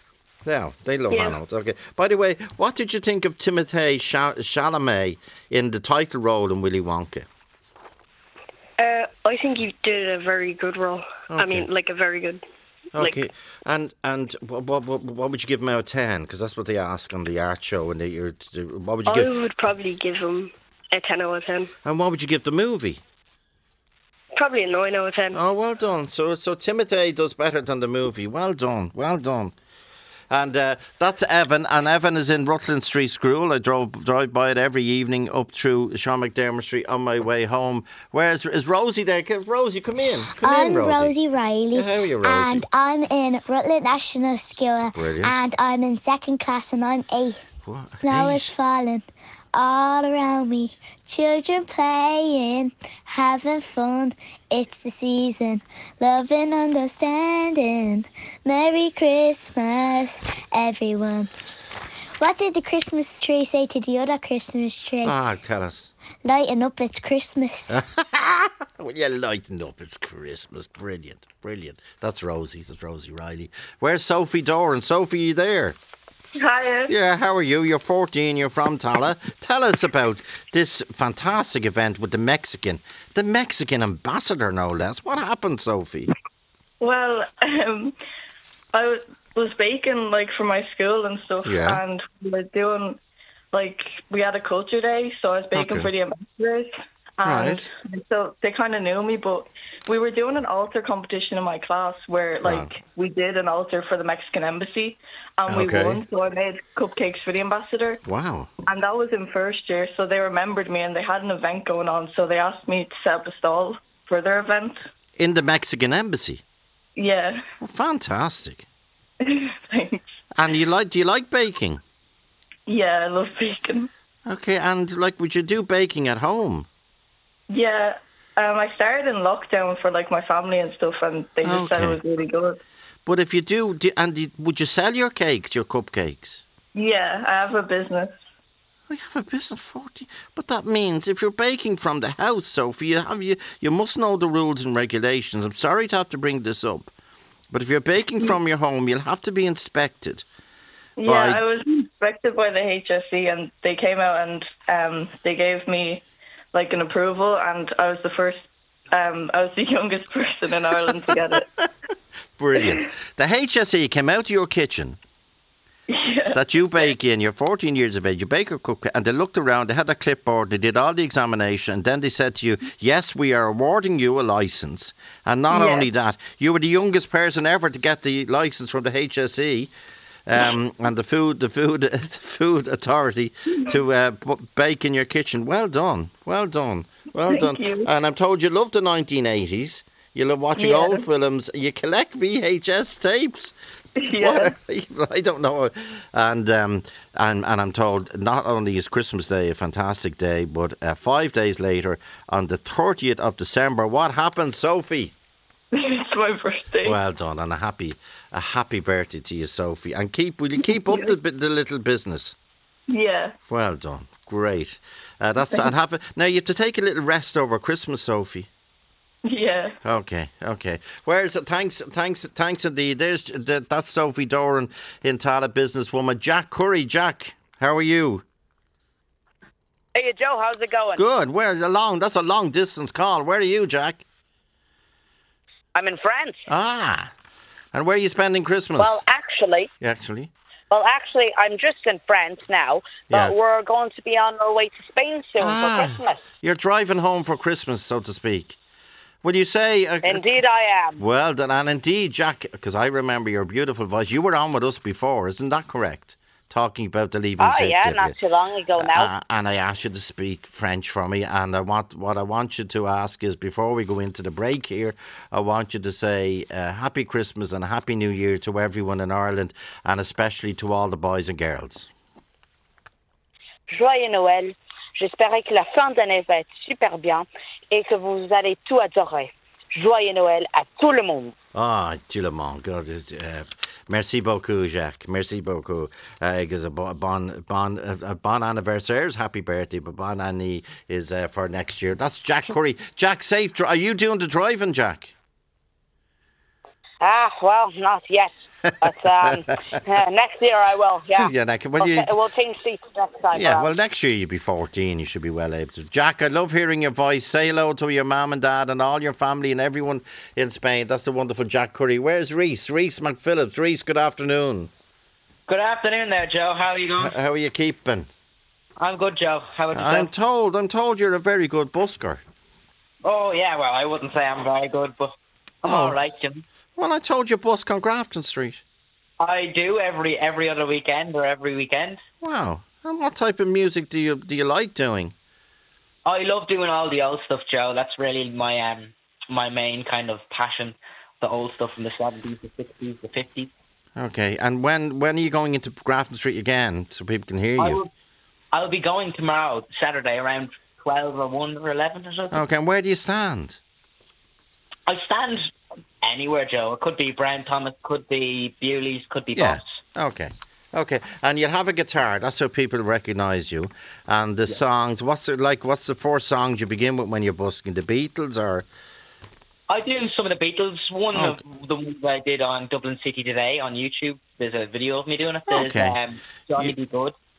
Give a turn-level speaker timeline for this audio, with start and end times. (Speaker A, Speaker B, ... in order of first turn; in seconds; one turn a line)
Speaker A: 0.4-7.3
Speaker B: 1.1-1.4
Speaker B: 8.8-12.4
Speaker A: 11.3-11.7
Speaker A: 12.9-19.3
Speaker B: 19.1-21.7
Speaker A: 21.8-23.0
Speaker B: 24.4-25.4
Speaker A: 25.3-29.5
Speaker A: 30.3-41.1
Speaker C: 40.4-47.4
Speaker A: 41.7-42.6
Speaker A: 44.9-45.4
Speaker A: 47.6-48.5
Speaker C: 48.0-61.3
Speaker C: 62.2-65.2
Speaker A: 65.0-65.9
Speaker C: 66.2-67.8
Speaker A: 67.7-75.8
Speaker D: 76.4-76.9
Speaker A: 76.9-86.1
Speaker D: 86.8-88.0
Speaker D: 88.7-93.0
Speaker A: 91.4-91.8
Speaker D: 93.5-108.0
Speaker A: 95.5-95.9
Speaker A: 97.2-97.7
Speaker A: 102.4-102.7
Speaker A: 105.5-106.0
Speaker A: 108.0-108.5
Speaker D: 108.7-114.8
Speaker A: 115.2-116.4
Speaker D: 117.0-117.4
Speaker A: 117.6-118.7
Speaker D: 119.2-120.0
Speaker A: 120.3-121.8
Speaker D: 122.7-123.9
Speaker A: 124.2-126.7
Speaker D: 127.5-132.6
Speaker A: 131.4-132.0
Speaker A: 133.1-136.4
Speaker D: 136.7-138.2
Speaker A: 138.9-146.9
Speaker A: 147.5-150.2
Speaker D: 151.0-161.4
Speaker A: 151.0-151.6
Speaker A: 160.7-161.7
Speaker A: 162.4-165.0
Speaker D: 165.9-166.8
Speaker A: 166.3-179.7
Speaker D: 175.5-175.8
Speaker A: 180.3-193.5
Speaker D: 187.3-187.9
Speaker D: 190.6-191.0
Speaker D: 194.0-194.5
Speaker A: 194.1-205.1
Speaker D: 205.7-207.0
Speaker A: 206.8-212.3
Speaker D: 210.6-211.1
Speaker D: 212.9-213.3
Speaker A: 213.5-218.5
Speaker D: 215.4-215.7
Speaker D: 219.3-219.8
Speaker A: 219.8-228.2
Speaker E: 229.9-231.0
Speaker A: 230.9-234.0
Speaker E: 235.7-236.4
Speaker A: 236.5-237.1
Speaker A: 237.7-239.0
Speaker E: 238.8-239.7
Speaker A: 239.8-240.3
Speaker E: 240.7-246.2
Speaker A: 245.4-248.6
Speaker A: 249.2-250.2
Speaker E: 250.0-251.0
Speaker A: 251.0-258.1
Speaker E: 257.4-259.1
Speaker A: 258.8-271.9
Speaker E: 273.7-281.3
Speaker A: 281.5-295.1
Speaker E: 297.0-303.7
Speaker A: 298.6-299.8
Speaker A: 301.2-302.1
Speaker A: 303.3-314.7
Speaker F: 315.5-317.1
Speaker A: 317.0-318.1
Speaker F: 318.8-320.1
Speaker A: 319.7-322.2
Speaker F: 323.0-325.1
Speaker F: 325.6-326.4
Speaker A: 325.6-326.0
Speaker A: 326.8-328.6
Speaker F: 329.2-332.0
Speaker A: 332.2-335.1
Speaker F: 336.1-343.5
Speaker A: 343.9-347.8
Speaker F: 347.6-347.9
Speaker F: 348.5-352.4
Speaker A: 352.3-353.6
Speaker F: 354.9-355.4
Speaker F: 356.0-359.7
Speaker A: 359.3-368.7
Speaker F: 369.7-377.1
Speaker A: 371.1-371.4
Speaker A: 375.5-376.0